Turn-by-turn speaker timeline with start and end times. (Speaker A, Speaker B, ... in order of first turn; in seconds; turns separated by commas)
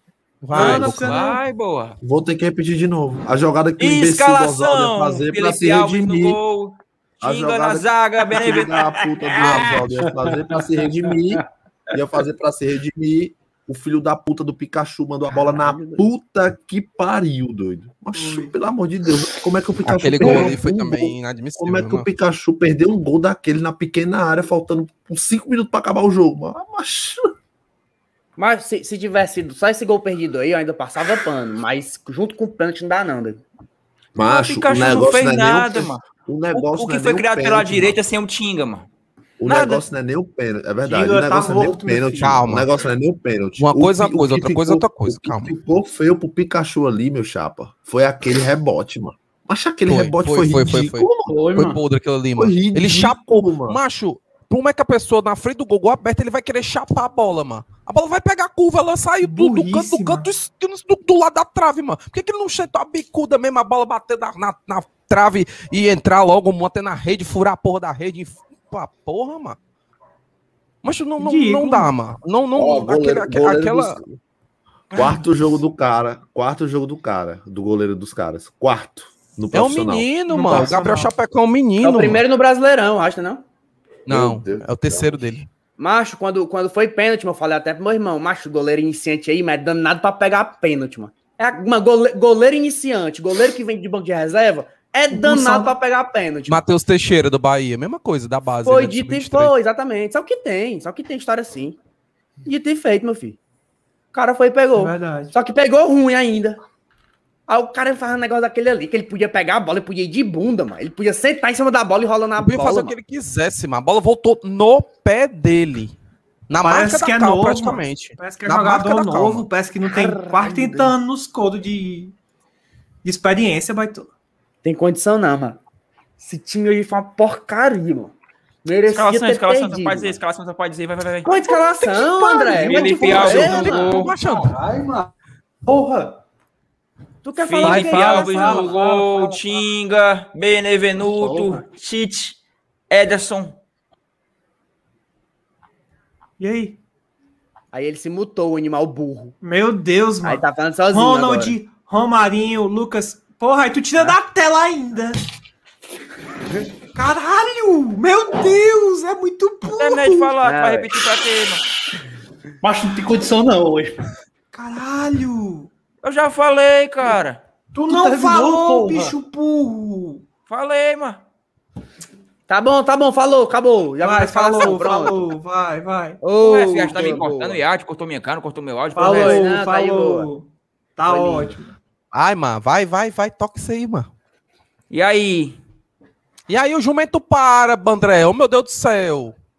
Speaker A: 0.4-1.1, Speaker B: 0.5-1.4, Speaker C: 0.5-2.0, Speaker D: 2.0-6.4, Speaker C: 3.8-8.8, Speaker D: 7.2-27.3, Speaker B: 8.8-9.2, Speaker A: 9.4-9.8, Speaker E: 9.9-11.4, Speaker F: 15.3-16.1, Speaker B: 18.1-18.5, Speaker A: 19.8-22.1, Speaker F: 20.2-20.5, Speaker F: 28.4-33.4, Speaker D: 34.1-38.0, Speaker C: 34.2-38.9, Speaker D: 39.4-51.6, Speaker C: 39.4-39.8, Speaker B: 40.8-42.4, Speaker A: 42.2-42.7, Speaker A: 43.6-45.5, Speaker A: 49.9-69.6, Speaker E: 51.3-51.8, Speaker D: 52.4-53.8, Speaker B: 59.2-60.3, Speaker A: 70.8-74.0, Speaker B: 71.2-71.9, Speaker D: 72.5-74.2, Speaker D: 74.9-80.8, Speaker A: 79.5-82.2, Speaker B: 80.3-81.1, Speaker F: 81.8-83.4, Speaker D: 84.1-85.4, Speaker A: 84.1-85.5, Speaker F: 85.8-96.6, Speaker B: 95.1-95.7, Speaker A: 96.5-99.5, Speaker F: 98.6-101.8, Speaker F: 102.4-103.4, Speaker F: 104.1-106.6, Speaker B: 104.7-105.3, Speaker F: 107.5-113.0, Speaker A: 112.4-115.9, Speaker A: 116.5-119.5, Speaker B: 116.6-122.1, Speaker F: 119.8-120.9, Speaker B: 123.0-124.1, Speaker F: 124.6-125.6, Speaker F: 126.2-128.1, Speaker F: 128.6-130.2, Speaker C: 128.9-131.4, Speaker F: 131.2-133.8, Speaker E: 131.7-135.1, Speaker C: 132.5-134.1, Speaker A: 133.2-134.5, Speaker E: 135.6-136.2, Speaker F: 137.2-138.8, Speaker C: 137.4-142.4, Speaker E: 137.6-139.4, Speaker E: 141.0-141.6, Speaker C: 142.9-143.6, Speaker B: 146.4-146.8, Speaker F: 147.7-149.3, Speaker B: 149.4-155.2, Speaker F: 150.2-151.6, Speaker B: 156.9-160.3, Speaker C: 159.6-161.6, Speaker F: 160.4-160.9, Speaker E: 162.6-164.0, Speaker B: 164.5-165.7, Speaker C: 166.0-167.4, Speaker B: 167.7-170.2, Speaker E: 167.8-169.2, Speaker C: 170.5-171.2, Speaker F: 172.5-175.3, Speaker B: 174.0-176.2, Speaker F: 176.2-177.6, Speaker C: 176.4-179.5, Speaker B: 178.9-181.7, Speaker F: 179.0-180.3, Speaker F: 181.1-181.6, Speaker A: 182.1-184.1, Speaker C: 184.9-185.6, Speaker A: 186.5-189.3